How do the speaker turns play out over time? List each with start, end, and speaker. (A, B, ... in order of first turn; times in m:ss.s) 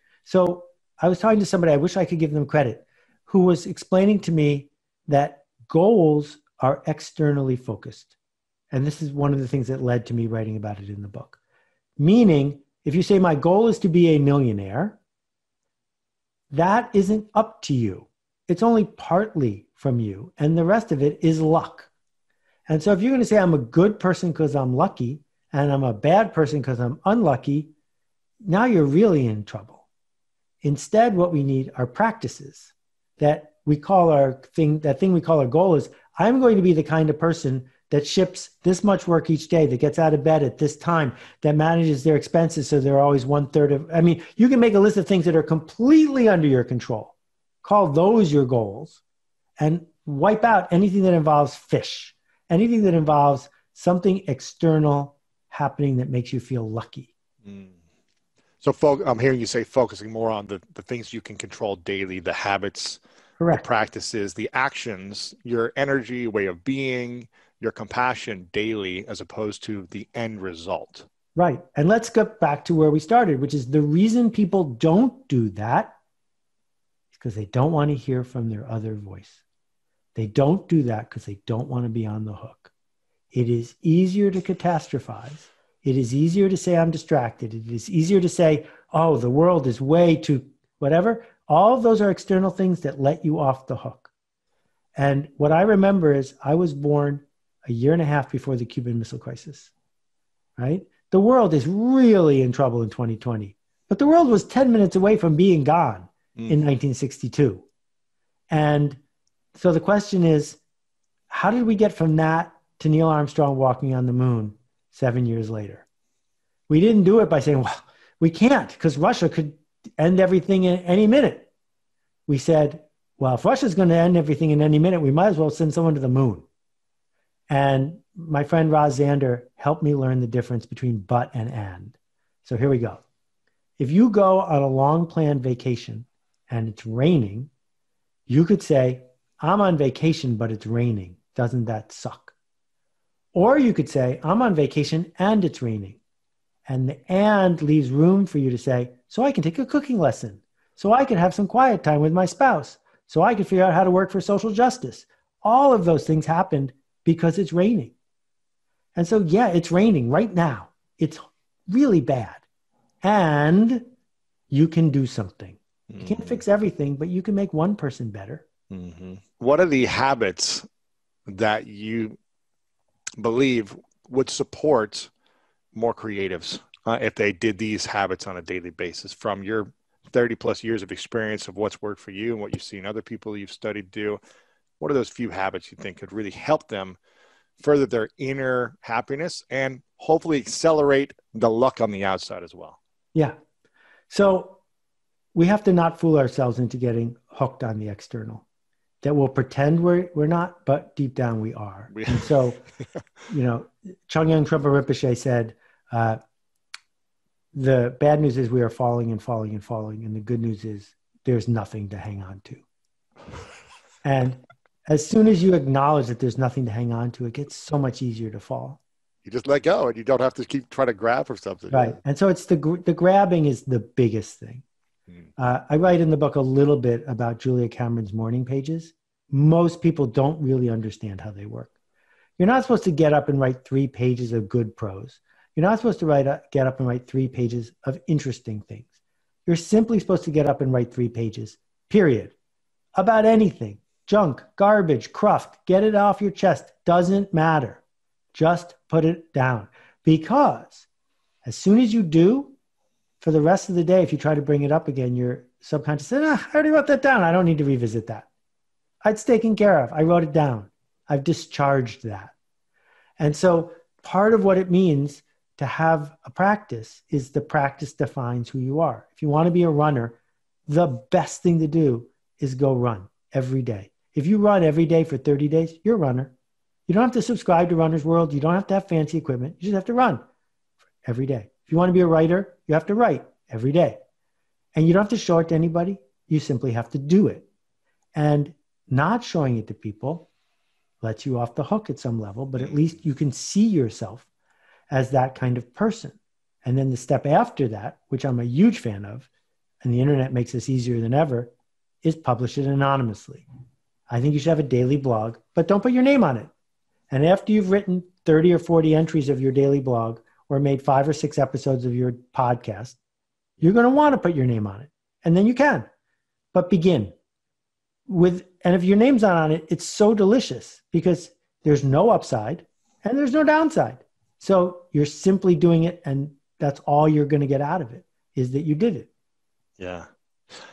0:00.2-0:08.1 A
0:08.7-0:11.4 A
0:12.0-0:15.0 A
0:16.5-0:21.9 A
0:22.7-0:27.7 A
0:28.4-0:29.8 A
0:30.6-0:49.0 A
0:49.6-0:57.1 A
0:57.4-0:57.8 B
0:58.6-1:03.0 B
1:03.4-1:03.6 A
1:03.5-1:11.1 B
1:11.4-1:16.0 A
1:17.1-1:19.4 A
1:20.2-1:22.7 A
1:23.3-1:34.1 A
1:35.0-1:39.7 A
1:40.6-1:47.6 A
1:48.5-1:49.0 A
1:49.6-1:50.6 A
1:51.3-1:55.8 A
1:56.7-2:01.5 A
2:02.3-2:06.5 A
2:07.5-2:13.0 A
2:13.8-2:17.5 A
2:18.3-2:22.3 A
2:23.3-2:26.0 A
2:26.7-2:38.0 A
2:39.0-2:42.4 A
2:43.0-2:43.9 A
2:44.5-2:48.4 A
2:45.9-2:46.4 B
2:48.7-2:50.7 B
2:51.3-2:52.2 B
2:53.2-2:55.1 B
2:55.7-3:04.2 B
3:04.8-3:07.0 B
3:07.6-3:12.8 B
3:14.1-3:14.6 A
3:15.3-3:18.4 A
3:19.0-3:22.6 A
3:21.9-3:22.3 B
3:23.3-3:26.2 A
3:27.5-3:32.6 A
3:34.0-3:38.8 A
3:39.2-3:42.0 B
3:41.7-3:44.6 A
3:45.4-3:51.7 A
3:52.4-3:58.9 A
3:59.5-4:02.3 A
4:03.0-4:07.8 A
4:08.3-4:10.9 A
4:11.4-4:12.5 A
4:13.2-4:18.3 A
4:19.0-4:22.3 A
4:23.2-4:36.3 A
4:36.9-4:40.2 A
4:41.0-4:44.0 A
4:44.8-4:47.5 A
4:48.1-4:50.3 A
4:51.0-4:54.3 A
4:52.6-4:52.8 B
4:54.9-4:59.3 A
4:59.8-5:01.5 A
5:02.0-5:03.4 A
5:04.1-5:06.5 A
5:07.1-5:13.0 A
5:13.6-5:15.9 A
5:16.5-5:17.2 A
5:18.1-5:29.1 A
5:29.8-5:30.1 B